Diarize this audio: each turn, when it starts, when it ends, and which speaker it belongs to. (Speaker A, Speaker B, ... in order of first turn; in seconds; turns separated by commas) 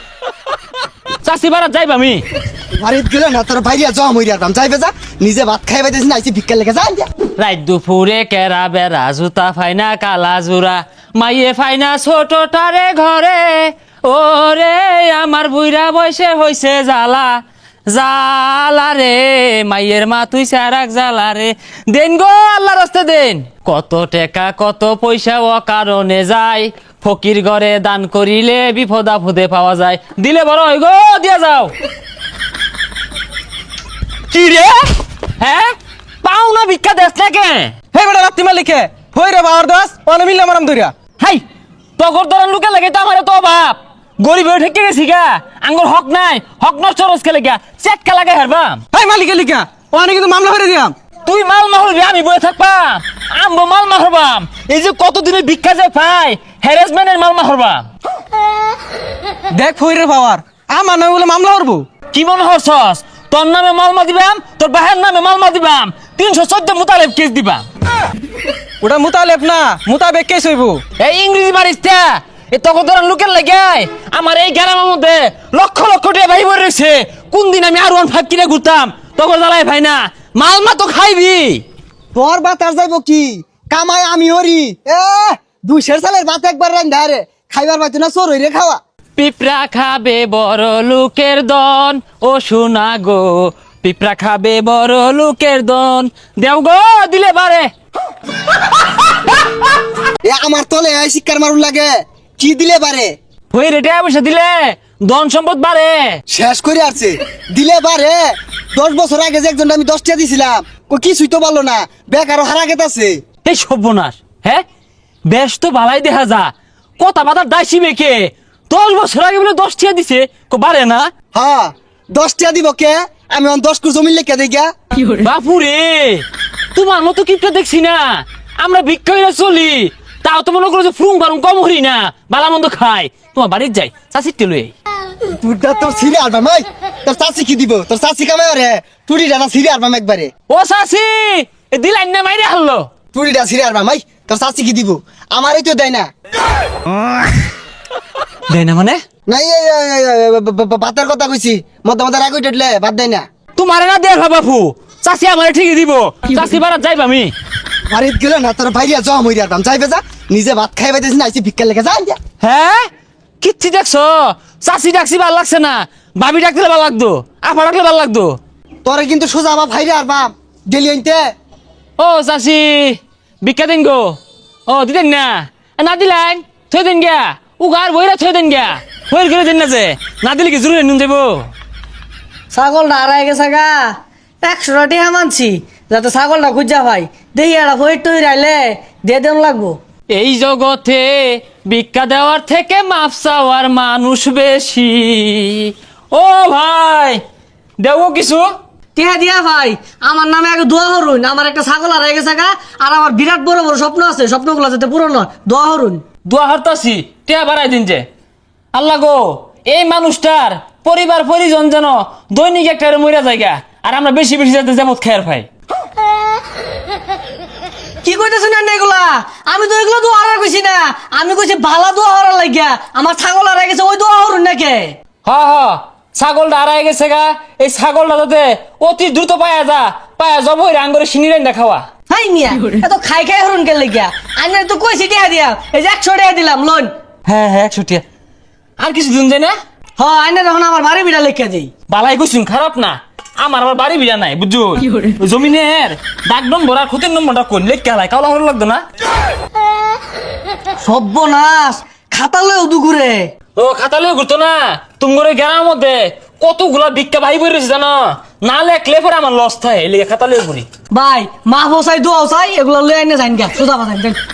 Speaker A: 1.2-2.2, Speaker B: 2.8-7.1, Speaker A: 7.4-31.7, Speaker A: 34.3-34.8, Speaker A: 35.4-37.8, Speaker C: 37.9-40.9, Speaker A: 42.0-48.8, Speaker C: 48.9-51.0, Speaker A: 51.3-57.9, Speaker C: 59.5-61.9, Speaker A: 62.1-67.7, Speaker C: 68.8-70.8, Speaker A: 71.0-81.6, Speaker B: 82.2-88.8, Speaker A: 89.2-97.7, Speaker B: 100.2-103.1, Speaker A: 103.5-106.2, Speaker B: 106.3-113.2, Speaker A: 113.4-114.6, Speaker A: 115.2-121.1, Speaker B: 121.3-124.7, Speaker A: 125.1-134.7, Speaker B: 135.4-140.3, Speaker A: 140.5-142.9, Speaker B: 143.1-146.1, Speaker A: 148.5-149.0, Speaker B: 149.3-153.2, Speaker A: 153.6-157.3, Speaker B: 157.9-162.2, Speaker A: 162.4-162.8, Speaker A: 163.4-168.4, Speaker B: 168.8-171.2, Speaker A: 172.0-181.5, Speaker D: 182.5-183.8, Speaker D: 184.4-189.8, Speaker A: 190.1-197.2, Speaker A: 197.8-198.5, Speaker D: 199.0-206.0, Speaker A: 206.3-208.1, Speaker A: 208.7-215.5, Speaker D: 218.0-225.0, Speaker A: 225.2-231.9, Speaker D: 232.1-236.9, Speaker A: 237.3-238.0, Speaker A: 238.8-239.5, Speaker D: 240.0-241.7, Speaker A: 241.9-248.8, Speaker D: 250.8-253.3, Speaker A: 253.6-260.6, Speaker D: 260.9-264.2